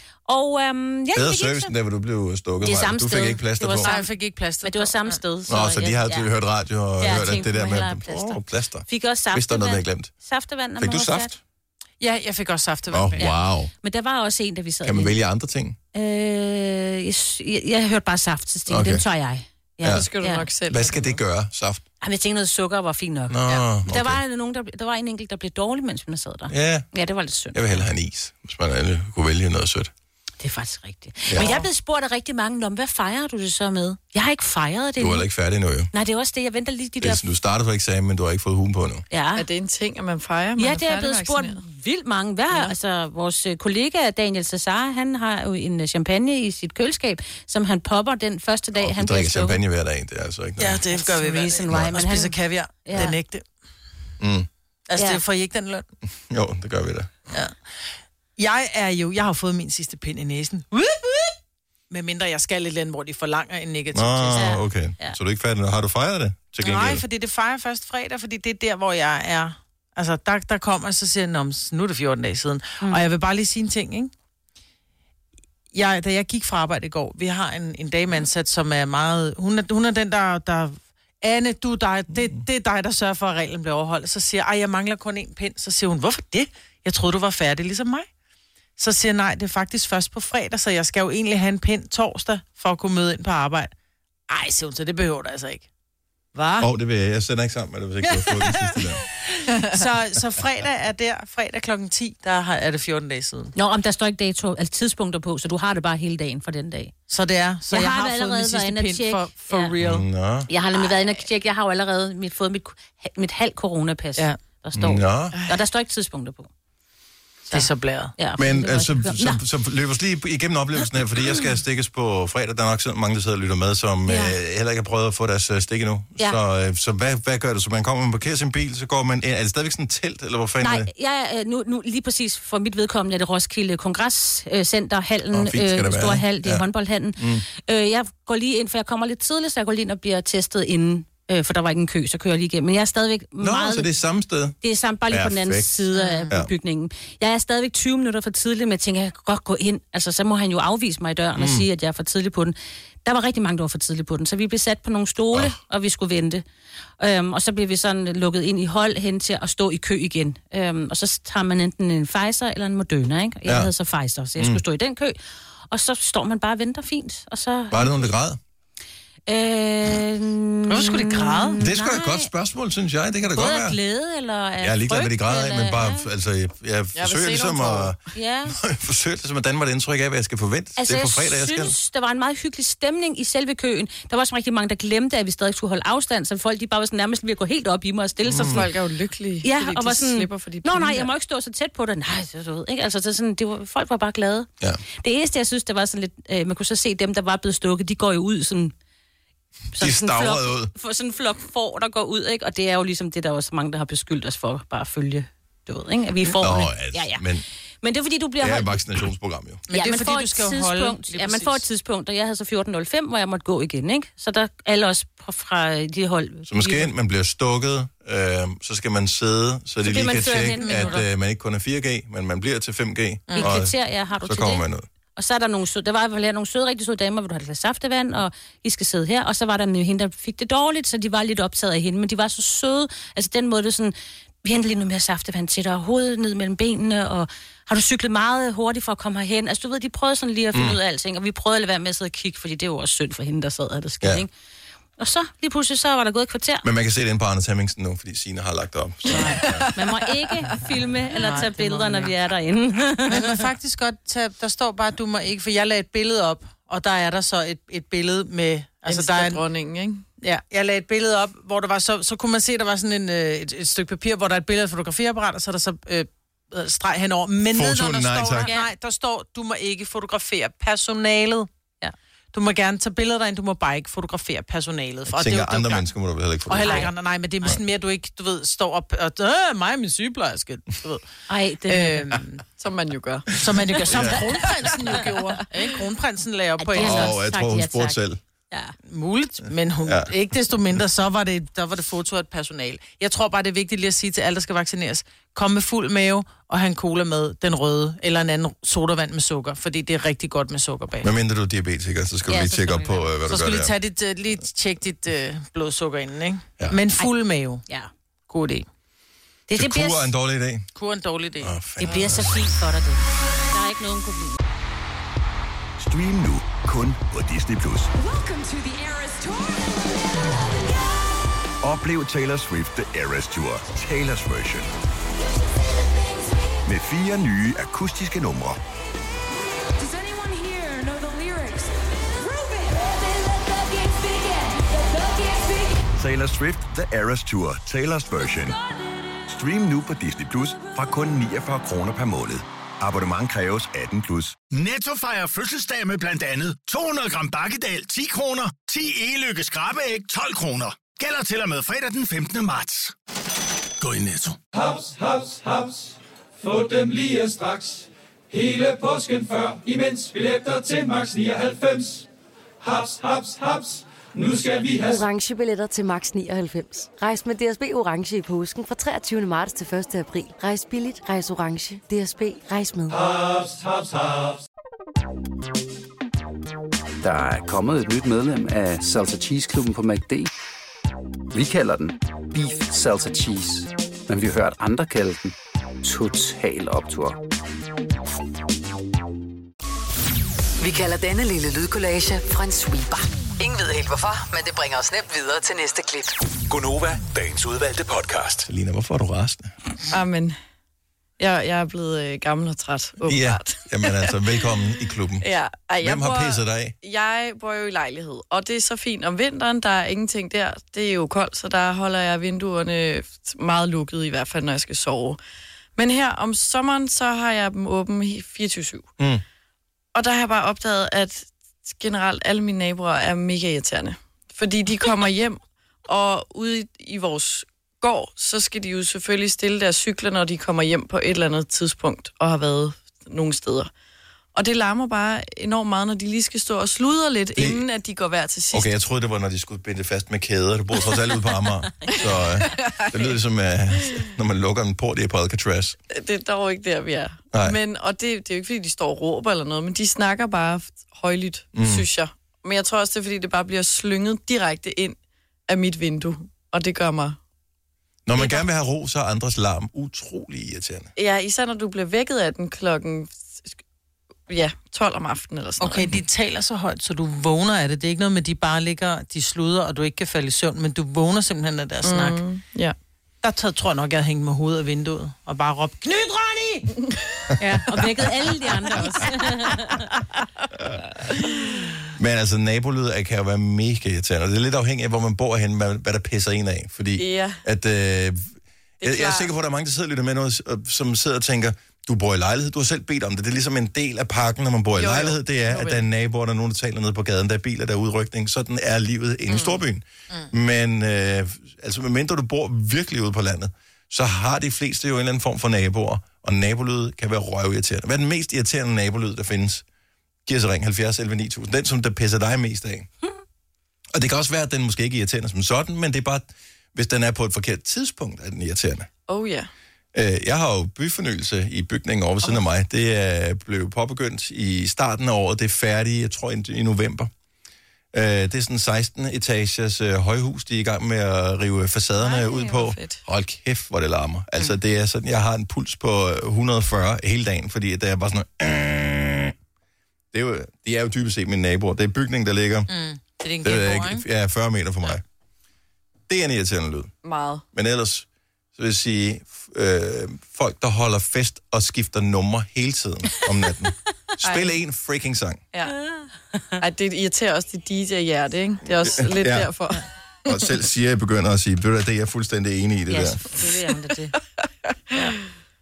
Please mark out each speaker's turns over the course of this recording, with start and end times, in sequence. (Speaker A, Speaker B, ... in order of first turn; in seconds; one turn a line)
Speaker A: 0.3-1.7
Speaker B: 1.1-3.9
Speaker A: 2.6-4.1
Speaker C: 3.8-5.2
Speaker A: 4.6-6.3
Speaker B: 5.5-10.1
Speaker A: 7.0-11.3
Speaker B: 10.8-11.4
Speaker C: 12.0-13.3
Speaker B: 12.9-13.7
Speaker A: 13.2-15.2
Speaker B: 14.8-15.8
Speaker A: 15.9-20.5
Speaker B: 18.7-19.0
Speaker B: 19.8-20.1
Speaker D: 19.8-21.2
Speaker B: 20.7-21.8
Speaker A: 22.0-27.9
Speaker B: 23.3-24.2
Speaker B: 26.5-26.9
Speaker B: 27.5-29.9
Speaker A: 30.4-35.3
Speaker B: 31.3-31.5
Speaker B: 35.0-35.9
Speaker A: 35.9-37.3
Speaker B: 37.0-39.0
Speaker A: 39.1-39.5
Speaker D: 39.4-41.6
Speaker A: 40.6-49.6
Speaker B: 48.8-50.8
Speaker C: 50.6-53.5
Speaker A: 50.9-53.2
Speaker B: 54.2-54.5
Speaker C: 54.9-55.9
Speaker A: 55.0-55.2
Speaker B: 56.3-57.1
Speaker C: 57.3-57.6
Speaker C: 58.4-61.4
Speaker C: 61.9-64.5
Speaker B: 63.9-67.0
Speaker A: 64.3-65.2
Speaker C: 66.6-74.1
Speaker C: 75.7-88.1
Speaker C: 88.8-93.7
Speaker C: 94.3-95.7
Speaker C: 96.4-96.7
Speaker B: 96.6-99.0
Speaker C: 98.0-103.5
Speaker A: 103.5-106.9
Speaker C: 107.1-110.0
Speaker A: 107.7-109.7
Speaker B: 109.8-110.5
Speaker A: 110.5-116.5
Speaker B: 114.8-115.4
Speaker C: 117.5-118.1
Speaker A: 117.5-119.4
Speaker B: 118.4-130.9
Speaker A: 124.1-124.3
Speaker A: 130.6-143.9
Speaker B: 135.3-136.7
Speaker B: 137.2-137.4
Speaker B: 143.4-144.6
Speaker A: 144.6-156.4
Speaker B: 145.1-146.5
Speaker C: 145.9-146.3
Speaker B: 151.4-151.7
Speaker A: 157.0-165.2
Speaker B: 164.4-164.6
Speaker A: 165.7-168.1
Speaker B: 167.7-168.4
Speaker A: 169.3-172.3
Speaker C: 170.7-171.6
Speaker B: 171.6-173.8
Speaker A: 173.3-176.1
Speaker B: 174.6-181.8
Speaker D: 176.9-178.0
Speaker A: 178.1-178.6
Speaker A: 180.8-188.7
Speaker B: 188.3-188.7
Speaker D: 188.4-191.1
Speaker A: 189.4-194.5
Speaker A: 195.0-198.7
Speaker A: 199.7-207.2
Speaker B: 199.8-200.7
Speaker B: 206.3-207.4
Speaker A: 207.8-208.8
Speaker B: 208.4-209.6
Speaker C: 209.7-211.6
Speaker A: 209.7-216.9
Speaker B: 216.5-224.9
Speaker A: 219.8-221.0
Speaker C: 220.3-221.1
Speaker C: 223.3-223.6
Speaker A: 223.4-244.3
Speaker B: 240.5-240.8
Speaker A: 245.0-246.7
Speaker B: 246.6-249.7
Speaker A: 249.1-253.4
Speaker D: 249.2-250.0
Speaker C: 251.1-252.1
Speaker C: 253.1-259.4
Speaker D: 258.9-260.0
Speaker C: 260.2-271.5
Speaker B: 267.5-268.5
Speaker C: 272.3-275.9
Speaker B: 275.1-277.6
Speaker C: 276.5-281.0
Speaker A: 276.6-276.9
Speaker A: 281.3-282.1
Speaker C: 281.7-282.4
Speaker D: 282.6-283.3
Speaker C: 283.4-287.1
Speaker B: 283.9-284.2
Speaker A: 286.6-288.0
Speaker B: 286.8-288.2
Speaker C: 288.9-301.1
Speaker B: 301.0-303.7
Speaker A: 302.3-303.1
Speaker C: 303.3-307.6
Speaker C: 308.3-308.7
Speaker A: 309.5-310.1
Speaker B: 309.6-310.6
Speaker C: 310.8-311.6
Speaker B: 311.4-312.4
Speaker A: 311.8-314.4
Speaker E: 315.8-317.9
Speaker F: 317.9-321.2
Speaker E: 321.6-324.7
Speaker F: 325.9-326.5
Speaker E: 326.6-328.6
Speaker F: 329.3-335.9
Speaker E: 335.9-338.6
Speaker E: 339.3-344.4
Speaker G: 344.5-352.9
Speaker G: 353.8-354.4
Speaker H: 354.5-362.1
Speaker H: 362.6-365.1
Speaker I: 364.9-373.0
Speaker H: 372.9-374.4
Speaker J: 377.0-380.3
Speaker J: 381.3-387.2
Speaker K: 390.6-396.1
Speaker E: 396.5-398.5
Speaker B: 398.5-399.5
Speaker D: 399.9-400.4
Speaker D: 401.2-404.1
Speaker B: 403.1-405.3
Speaker D: 405.2-415.2
Speaker B: 405.8-406.7
Speaker D: 415.8-418.9
Speaker D: 419.9-433.7
Speaker D: 434.4-438.7
Speaker B: 437.4-437.6
Speaker B: 438.5-445.8
Speaker D: 442.6-442.8
Speaker D: 445.9-455.0
Speaker B: 447.3-447.6
Speaker B: 451.6-451.9
Speaker D: 455.5-457.2
Speaker B: 458.1-460.9
Speaker D: 461.0-463.5
Speaker D: 464.3-465.9
Speaker C: 465.6-472.2
Speaker D: 471.8-472.8
Speaker C: 473.2-476.7
Speaker A: 477.4-479.9
Speaker D: 481.0-481.4
Speaker B: 481.9-509.6
Speaker D: 487.0-487.4
Speaker D: 488.8-489.3
Speaker D: 494.8-495.9
Speaker D: 499.3-499.6
Speaker B: 510.3-512.9
Speaker B: 513.9-518.9
Speaker D: 519.1-519.5
Speaker B: 519.9-527.1
Speaker B: 527.9-539.3
Speaker D: 532.0-533.0
Speaker B: 540.1-542.7
Speaker C: 542.7-544.0
Speaker B: 543.4-545.0
Speaker B: 546.1-546.9
Speaker D: 547.0-547.4
Speaker B: 547.5-555.4
Speaker D: 554.2-554.5
Speaker D: 556.6-560.5
Speaker B: 558.9-559.5
Speaker B: 560.3-563.2
Speaker A: 562.9-564.2